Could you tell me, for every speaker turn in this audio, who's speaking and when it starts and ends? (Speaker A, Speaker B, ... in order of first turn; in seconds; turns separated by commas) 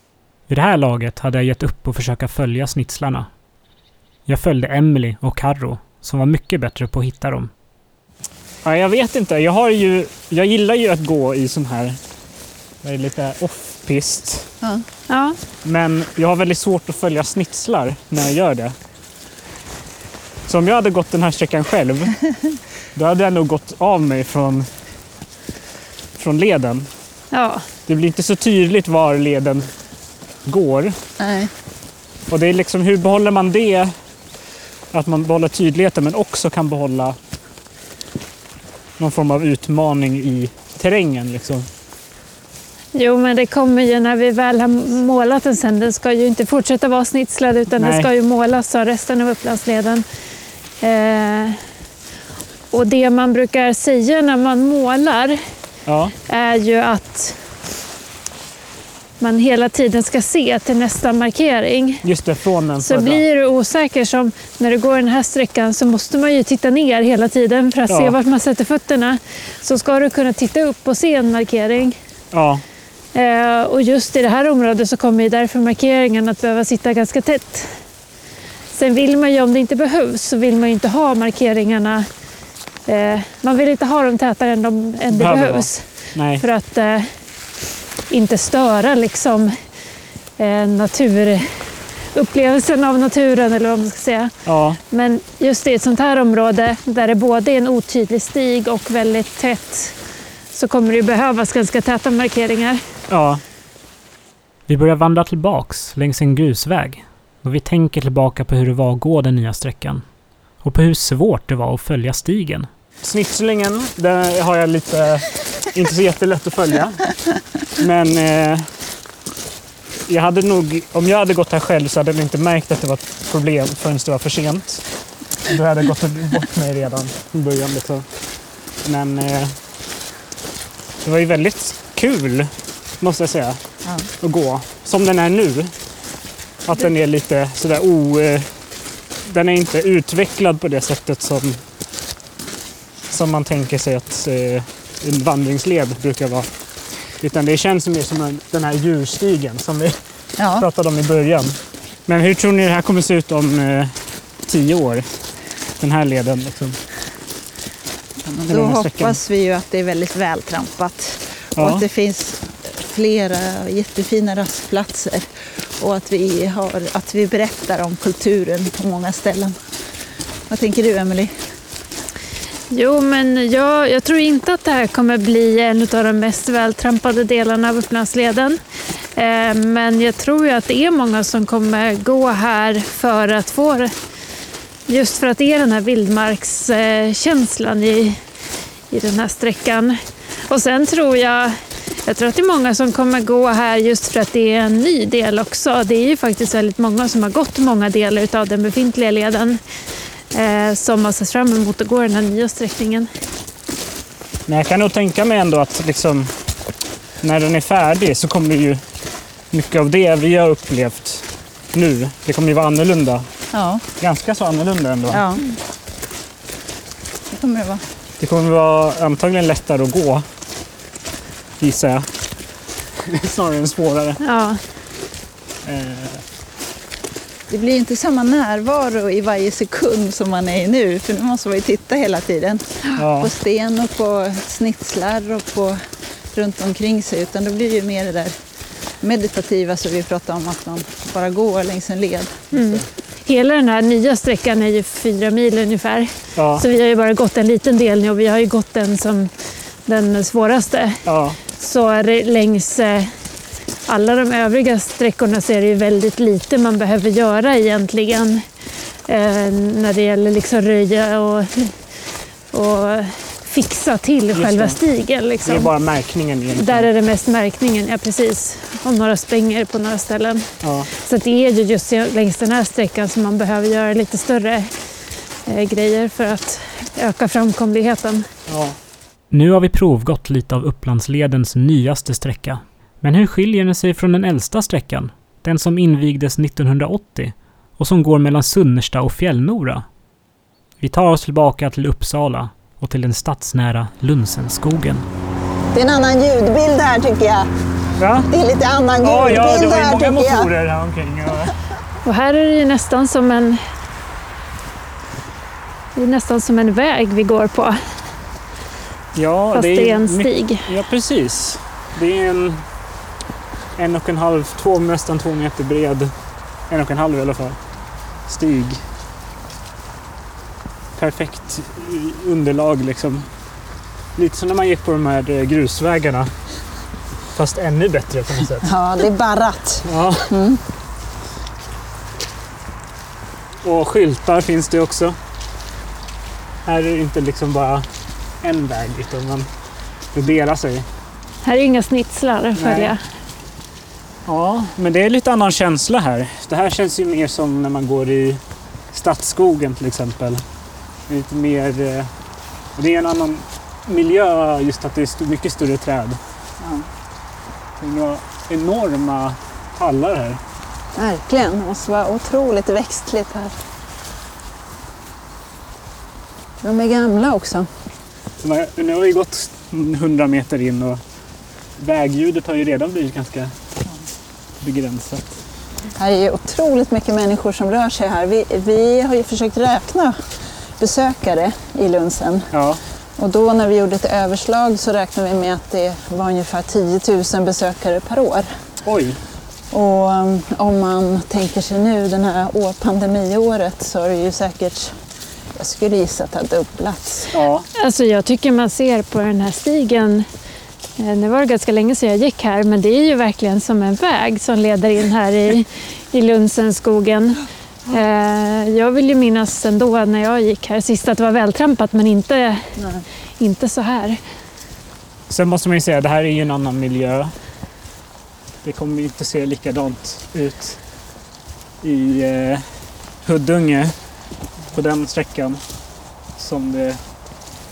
Speaker A: 0.5-3.3, Speaker A: 4.3-7.5, Speaker B: 8.6-12.0, Speaker B: 12.8-14.5, Speaker C: 15.1-15.4, Speaker B: 15.6-18.7, Speaker B: 20.5-22.2, Speaker B: 22.9-24.7, Speaker B: 26.2-26.9, Speaker C: 27.3-27.7, Speaker B: 27.9-29.7, Speaker B: 30.4-31.0, Speaker D: 31.2-31.5, Speaker B: 32.3-33.9, Speaker B: 34.9-37.2, Speaker B: 39.0-41.7, Speaker C: 42.9-50.0, Speaker B: 47.8-48.1, Speaker C: 50.8-51.6, Speaker C: 52.7-55.4, Speaker B: 55.9-56.1, Speaker C: 56.3-57.4, Speaker C: 59.2-62.0, Speaker B: 62.0-63.2, Speaker C: 62.8-72.0, Speaker B: 67.9-68.1, Speaker B: 72.3-72.6, Speaker C: 73.1-77.8, Speaker C: 78.7-82.1, Speaker C: 82.8-87.1, Speaker B: 85.1-86.4, Speaker C: 88.1-89.6, Speaker C: 90.4-94.3, Speaker B: 94.4-94.8, Speaker C: 94.9-100.0, Speaker C: 100.5-102.8, Speaker B: 103.1-103.4, Speaker A: 104.7-110.0, Speaker A: 110.6-112.7, Speaker B: 113.0-117.1, Speaker B: 117.8-118.7, Speaker B: 120.1-124.8, Speaker B: 125.4-128.1, Speaker B: 128.8-129.6, Speaker B: 131.0-133.6, Speaker B: 134.2-135.7, Speaker B: 136.6-138.6, Speaker B: 139.2-141.6, Speaker B: 143.1-146.5, Speaker B: 147.0-150.0, Speaker D: 150.4-150.7, Speaker B: 150.5-155.1, Speaker B: 155.8-156.8, Speaker D: 158.2-169.6, Speaker B: 158.5-159.2, Speaker B: 161.6-161.8, Speaker D: 170.5-171.4, Speaker C: 172.7-178.6, Speaker C: 179.2-183.9, Speaker C: 184.9-188.2, Speaker C: 188.9-199.6, Speaker C: 200.3-203.1, Speaker B: 204.5-206.3, Speaker B: 207.2-208.8, Speaker B: 209.5-213.3, Speaker D: 213.5-213.8, Speaker B: 214.0-215.2, Speaker D: 215.1-215.4, Speaker D: 217.3-217.8, Speaker B: 218.2-220.3, Speaker B: 221.6-222.1, Speaker B: 223.0-224.2, Speaker C: 224.2-224.6, Speaker B: 225.6-226.2, Speaker D: 227.5-238.3, Speaker B: 233.0-233.3, Speaker D: 239.0-242.8, Speaker C: 242.5-249.3, Speaker B: 246.3-246.6, Speaker C: 249.8-253.1, Speaker B: 251.1-251.4, Speaker C: 253.9-258.4, Speaker C: 259.0-261.8, Speaker C: 262.5-265.7, Speaker B: 264.3-264.8, Speaker B: 265.4-266.9, Speaker C: 266.6-274.7, Speaker B: 270.6-270.9, Speaker C: 275.4-278.3, Speaker B: 278.5-278.8, Speaker A: 279.3-289.9, Speaker A: 290.8-295.1, Speaker D: 295.7-297.5, Speaker B: 298.0-298.3, Speaker D: 298.3-300.5, Speaker B: 299.0-301.6, Speaker C: 302.0-303.6, Speaker C: 305.9-307.8, Speaker B: 309.1-312.6, Speaker C: 309.5-310.7, Speaker B: 313.8-316.1, Speaker B: 316.7-317.6, Speaker B: 318.3-318.8, Speaker B: 320.9-323.3, Speaker B: 324.1-326.3, Speaker B: 327.3-328.7, Speaker D: 328.6-330.6, Speaker B: 329.8-330.3, Speaker B: 333.6-335.2, Speaker B: 336.6-337.9, Speaker B: 338.4-339.5, Speaker B: 340.1-340.9, Speaker C: 341.4-343.0, Speaker B: 342.6-342.9, Speaker B: 344.2-348.4, Speaker B: 348.9-350.4, Speaker B: 351.1-352.1, Speaker B: 352.8-356.2, Speaker D: 356.6-356.9, Speaker B: 357.8-360.4, Speaker D: 360.9-363.6, Speaker D: 366.6-367.7, Speaker B: 368.4-371.0, Speaker B: 371.8-373.5, Speaker B: 374.6-375.4, Speaker D: 375.9-380.2, Speaker D: 380.8-382.5, Speaker B: 382.5-382.8, Speaker D: 383.2-388.5, Speaker B: 388.8-389.2, Speaker D: 389.7-395.0, Speaker D: 395.5-397.3, Speaker B: 397.3-397.6, Speaker C: 397.7-400.3, Speaker C: 401.0-412.7, Speaker D: 412.8-413.0, Speaker C: 413.4-414.2, Speaker B: 415.3-417.3, Speaker B: 418.6-420.8, Speaker B: 421.8-423.9, Speaker B: 424.7-425.6, Speaker B: 426.4-427.0